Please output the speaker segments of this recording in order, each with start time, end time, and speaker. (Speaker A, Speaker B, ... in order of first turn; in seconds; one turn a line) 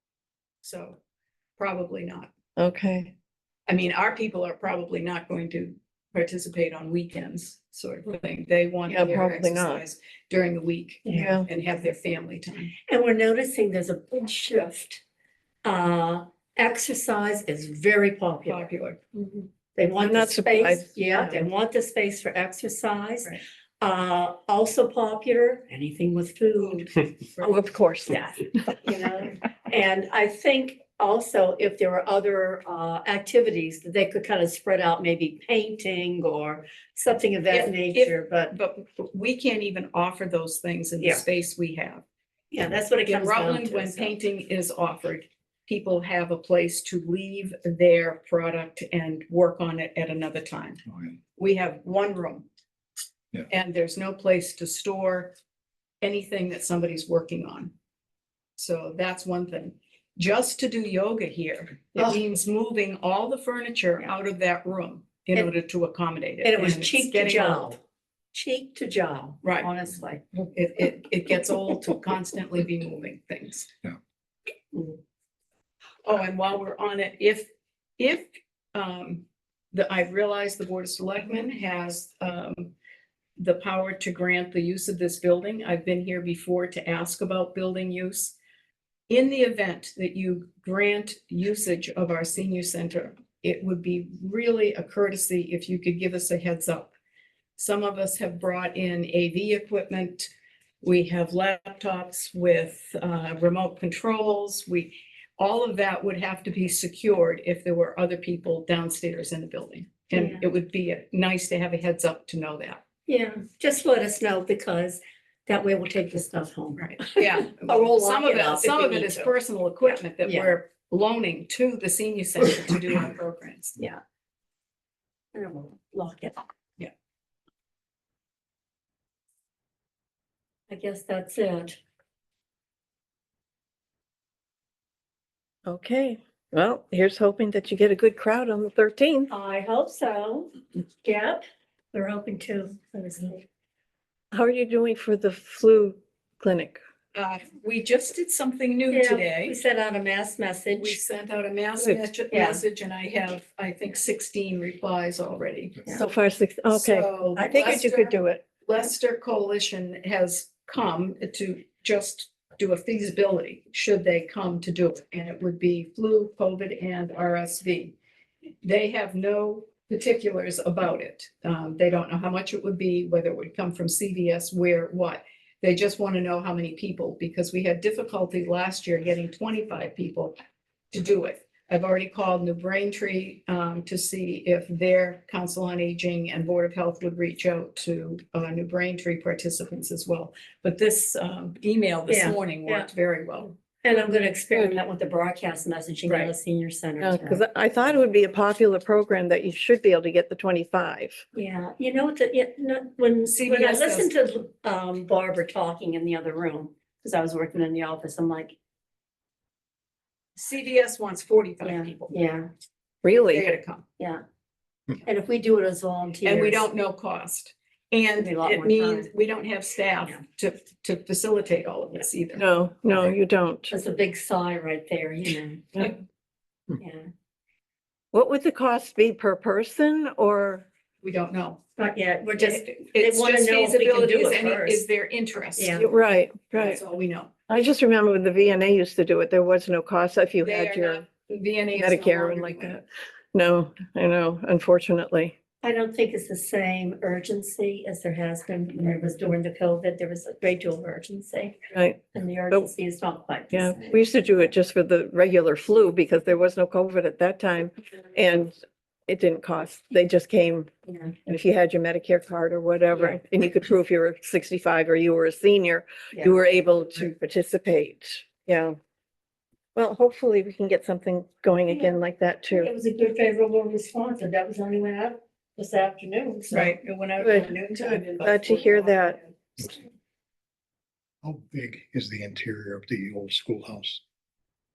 Speaker A: 0.6-1.0
Speaker A: 1.6-2.3
Speaker B: 2.6-3.1
Speaker A: 3.7-12.7
Speaker B: 8.9-9.8
Speaker B: 11.1-11.5
Speaker C: 12.9-15.0
Speaker C: 15.6-27.0
Speaker A: 18.4-19.0
Speaker B: 20.0-21.4
Speaker A: 26.6-27.6
Speaker B: 27.4-28.5
Speaker C: 28.7-38.5
Speaker A: 37.5-42.0
Speaker C: 42.5-44.2
Speaker A: 43.0-50.8
Speaker A: 51.4-52.5
Speaker A: 53.5-55.4
Speaker A: 56.0-57.7
Speaker A: 58.6-67.8
Speaker C: 66.4-67.8
Speaker C: 68.3-70.4
Speaker A: 69.4-69.7
Speaker A: 70.5-73.7
Speaker C: 74.7-75.0
Speaker A: 76.0-82.7
Speaker A: 83.4-88.3
Speaker A: 89.1-96.9
Speaker A: 97.5-100.3
Speaker A: 100.8-112.8
Speaker C: 110.1-110.4
Speaker C: 113.1-120.5
Speaker A: 116.8-123.8
Speaker C: 125.3-126.4
Speaker C: 130.7-131.8
Speaker B: 135.7-139.3
Speaker C: 139.3-143.4
Speaker B: 144.3-146.8
Speaker A: 147.1-149.6
Speaker C: 148.9-151.0
Speaker A: 150.8-155.8
Speaker C: 152.3-152.6
Speaker B: 155.9-158.4
Speaker A: 156.7-158.1
Speaker A: 158.6-167.9
Speaker A: 168.6-180.3
Speaker A: 180.9-193.5
Speaker C: 192.1-192.9
Speaker C: 193.8-197.4
Speaker A: 196.1-196.3
Speaker B: 197.0-201.2
Speaker C: 201.3-208.5
Speaker A: 203.3-204.1
Speaker A: 210.3-212.1
Speaker C: 211.6-212.5
Speaker B: 213.0-213.4
Speaker A: 213.3-213.8
Speaker C: 215.0-216.7
Speaker A: 216.2-222.4
Speaker C: 218.2-219.1
Speaker B: 222.3-223.7
Speaker C: 223.7-225.9
Speaker C: 226.8-227.1
Speaker B: 228.1-230.7
Speaker A: 231.0-231.6
Speaker C: 231.8-234.8
Speaker A: 232.4-235.9
Speaker C: 235.6-235.9
Speaker B: 235.8-236.8
Speaker A: 236.5-237.3
Speaker B: 237.5-241.0
Speaker A: 240.4-242.8
Speaker B: 241.7-242.8
Speaker B: 243.3-245.3
Speaker C: 245.6-254.0
Speaker B: 251.7-252.7
Speaker B: 253.5-258.6
Speaker B: 259.1-260.7
Speaker C: 260.9-261.1
Speaker B: 261.2-268.8
Speaker C: 262.9-263.2
Speaker C: 266.1-267.1
Speaker B: 269.8-272.7
Speaker C: 272.5-277.7
Speaker A: 276.5-279.3
Speaker B: 277.2-279.2
Speaker D: 281.2-284.0